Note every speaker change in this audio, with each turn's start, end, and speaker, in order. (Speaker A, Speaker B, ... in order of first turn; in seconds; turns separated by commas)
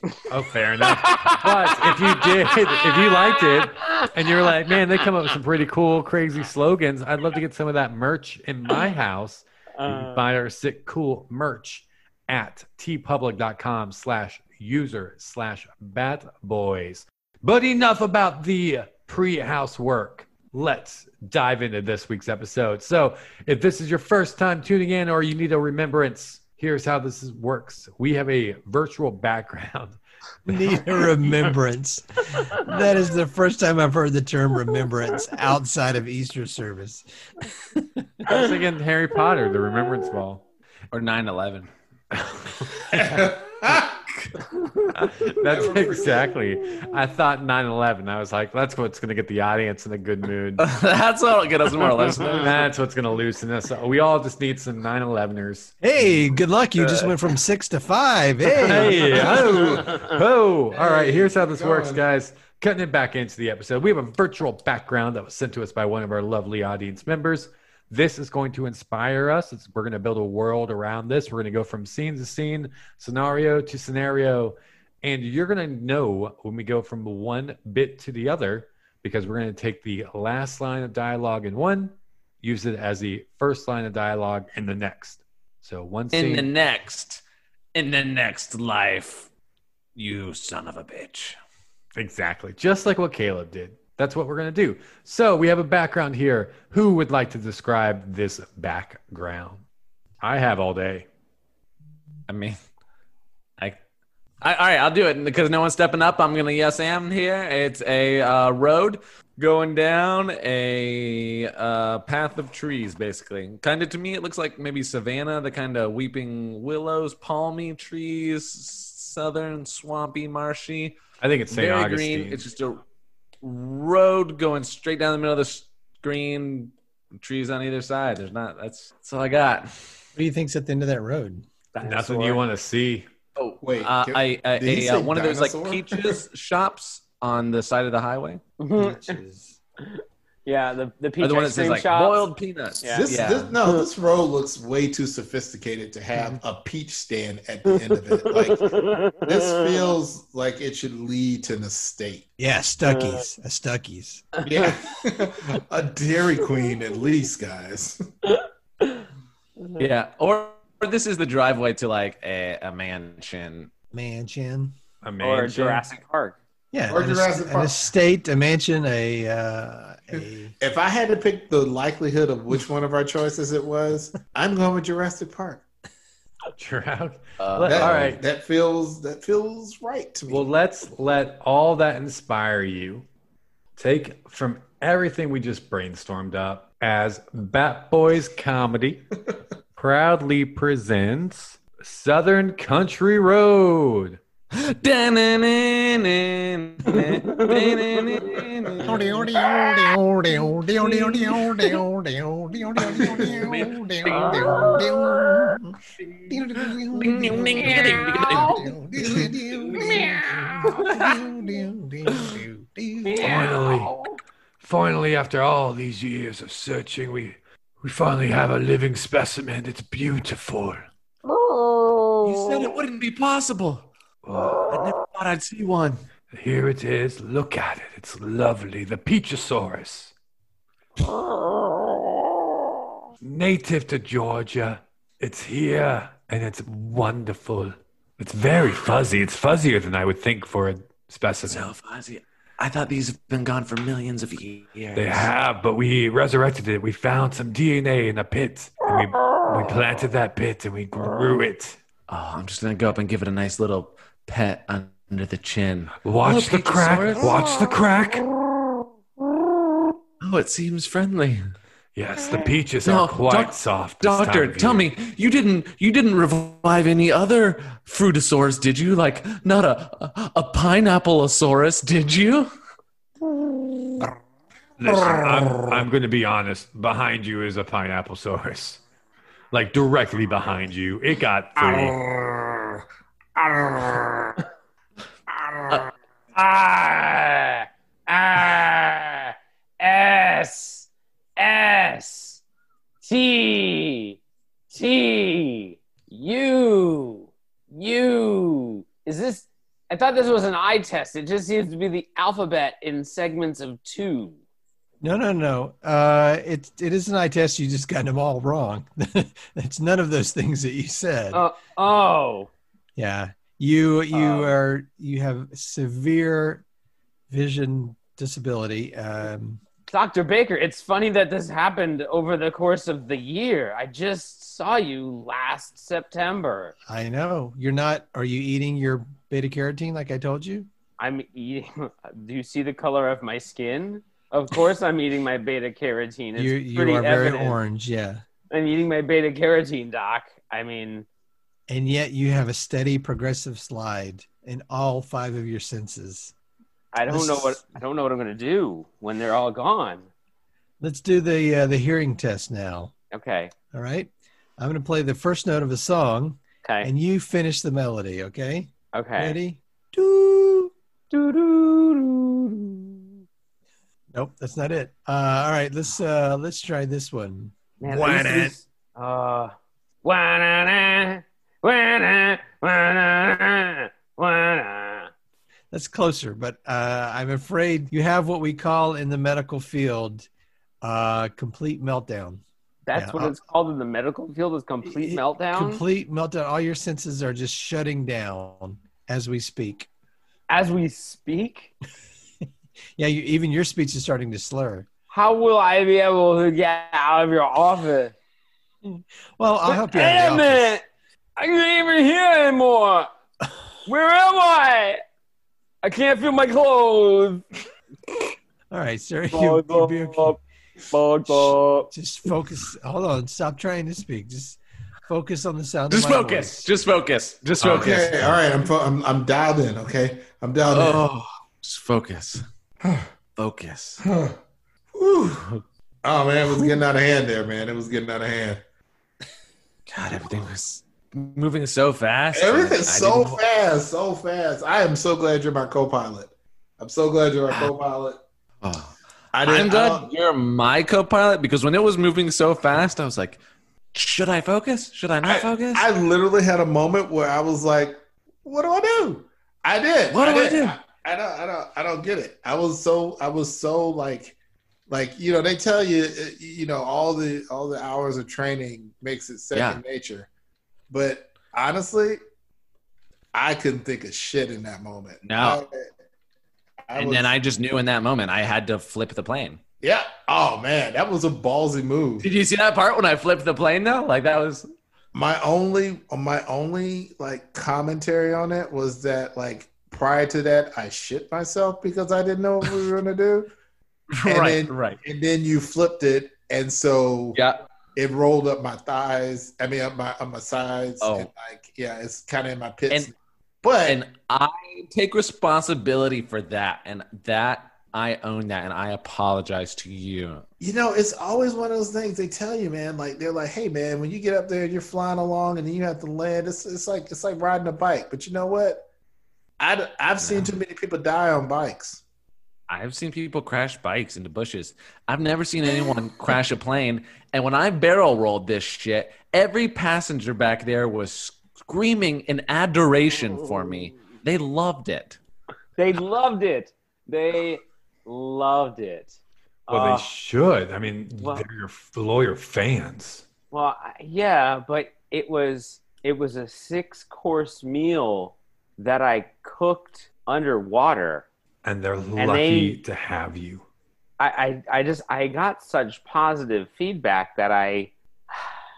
Speaker A: 0.3-30.0, Speaker B: 0.8-4.1, Speaker B: 9.8-10.2, Speaker C: 30.5-37.0, Speaker A: 38.2-40.4, Speaker D: 40.9-41.7, Speaker A: 42.1-43.3, Speaker E: 42.9-44.0, Speaker E: 45.2-46.4, Speaker A: 45.2-50.6, Speaker D: 50.6-52.6, Speaker A: 52.1-56.2, Speaker C: 55.8-59.3, Speaker A: 58.6-86.5, Speaker E: 59.0-60.0, Speaker B: 59.8-60.1, Speaker E: 60.7-62.0, Speaker D: 86.1-87.2, Speaker D: 87.8-89.3, Speaker D: 90.0-91.4, Speaker A: 92.0-99.6, Speaker A: 100.2-101.1, Speaker D: 102.3-102.6, Speaker D: 104.4-121.0, Speaker A: 121.2-122.5, Speaker D: 121.5-122.8, Speaker D: 123.4-129.7, Speaker C: 130.2-131.5, Speaker B: 131.7-132.4, Speaker A: 131.8-133.1, Speaker D: 133.4-138.4, Speaker E: 133.6-136.2, Speaker B: 138.6-139.2, Speaker C: 138.8-139.6, Speaker B: 139.8-142.3, Speaker D: 141.2-143.6, Speaker B: 142.8-143.1, Speaker E: 143.0-152.2, Speaker C: 146.1-146.4, Speaker B: 147.7-149.9, Speaker C: 152.4-154.3, Speaker B: 152.9-153.2, Speaker B: 154.4-154.9, Speaker E: 154.4-158.0, Speaker B: 158.3-159.1, Speaker D: 159.8-163.7, Speaker C: 163.9-164.7, Speaker A: 165.0-165.9, Speaker B: 165.2-166.4, Speaker C: 166.7-170.5, Speaker E: 166.9-167.8, Speaker E: 170.2-175.6, Speaker A: 176.6-178.2, Speaker D: 177.4-178.1, Speaker E: 177.7-180.4, Speaker A: 180.3-183.1, Speaker A: 183.8-189.0, Speaker A: 189.8-194.2, Speaker D: 194.5-199.2, Speaker B: 196.9-198.5, Speaker C: 198.8-205.8, Speaker E: 202.9-203.5, Speaker D: 203.3-204.8, Speaker B: 204.1-205.5, Speaker C: 206.3-213.3, Speaker D: 206.9-208.6, Speaker B: 207.6-208.7, Speaker E: 209.0-209.3, Speaker B: 209.6-211.2, Speaker B: 213.0-214.2, Speaker A: 213.2-213.9, Speaker A: 214.6-220.8, Speaker B: 221.3-222.7, Speaker D: 222.2-223.9, Speaker A: 224.2-224.8, Speaker D: 224.5-226.1, Speaker A: 226.3-230.1, Speaker A: 233.2-241.7, Speaker D: 241.5-245.3, Speaker A: 244.9-251.8, Speaker D: 252.1-257.7, Speaker A: 256.0-258.3, Speaker D: 260.2-261.4, Speaker A: 262.0-264.9, Speaker D: 262.8-272.5, Speaker A: 274.8-278.8, Speaker E: 275.0-275.8, Speaker A: 279.5-282.0, Speaker E: 281.6-282.4, Speaker E: 283.4-284.3, Speaker B: 286.3-292.4, Speaker B: 293.0-294.2, Speaker B: 294.7-304.4, Speaker C: 305.0-311.4, Speaker B: 311.3-312.5, Speaker C: 313.0-316.6, Speaker B: 314.1-314.5, Speaker C: 317.3-319.6, Speaker B: 319.9-326.7, Speaker C: 326.9-330.7, Speaker B: 331.0-337.6, Speaker C: 336.4-338.2, Speaker B: 338.5-341.1, Speaker C: 341.7-346.3, Speaker B: 346.9-350.1, Speaker C: 347.1-347.7, Speaker C: 350.8-352.9, Speaker B: 353.1-353.5, Speaker C: 353.7-362.9, Speaker B: 356.6-356.9, Speaker B: 358.9-359.4, Speaker B: 361.1-361.8, Speaker C: 364.1-368.6, Speaker B: 367.8-369.5, Speaker B: 370.0-375.1, Speaker C: 375.7-380.3, Speaker C: 380.8-382.4, Speaker B: 382.9-385.8, Speaker C: 382.9-383.4, Speaker C: 384.9-389.9, Speaker B: 390.5-391.7, Speaker C: 393.0-394.9, Speaker B: 395.1-398.1, Speaker C: 398.8-400.8, Speaker B: 399.7-400.8, Speaker B: 401.4-403.1, Speaker B: 403.9-405.0, Speaker B: 405.8-407.4, Speaker C: 408.7-410.4, Speaker B: 409.3-410.4, Speaker B: 410.9-411.9, Speaker C: 411.3-416.7, Speaker D: 415.9-418.4, Speaker E: 417.6-421.0, Speaker D: 420.7-422.4, Speaker E: 422.8-423.1, Speaker D: 423.4-424.0, Speaker E: 424.0-424.4, Speaker E: 424.9-425.5, Speaker E: 426.0-428.6, Speaker D: 426.5-426.8, Speaker D: 429.9-433.4, Speaker E: 432.3-438.2, Speaker D: 438.6-443.4, Speaker E: 439.3-440.1, Speaker D: 443.9-445.9, Speaker E: 445.2-454.4, Speaker D: 450.1-450.8, Speaker E: 454.9-460.3, Speaker D: 459.5-459.8, Speaker E: 460.9-462.2, Speaker E: 463.3-465.9, Speaker D: 465.3-465.6, Speaker E: 466.9-467.4, Speaker D: 467.0-469.6, Speaker E: 469.8-472.3, Speaker D: 472.2-474.7, Speaker E: 475.1-483.5, Speaker D: 484.1-485.0, Speaker E: 484.2-487.4, Speaker E: 488.0-494.0, Speaker D: 491.0-491.3, Speaker D: 493.9-500.4, Speaker E: 500.6-508.8, Speaker E: 509.6-512.0, Speaker D: 510.2-510.5, Speaker D: 512.7-525.2, Speaker B: 525.8-529.2, Speaker B: 529.7-530.1, Speaker A: 529.7-533.3, Speaker B: 531.2-531.5, Speaker B: 533.5-541.3, Speaker A: 541.6-543.6, Speaker B: 542.2-542.8, Speaker B: 544.2-548.4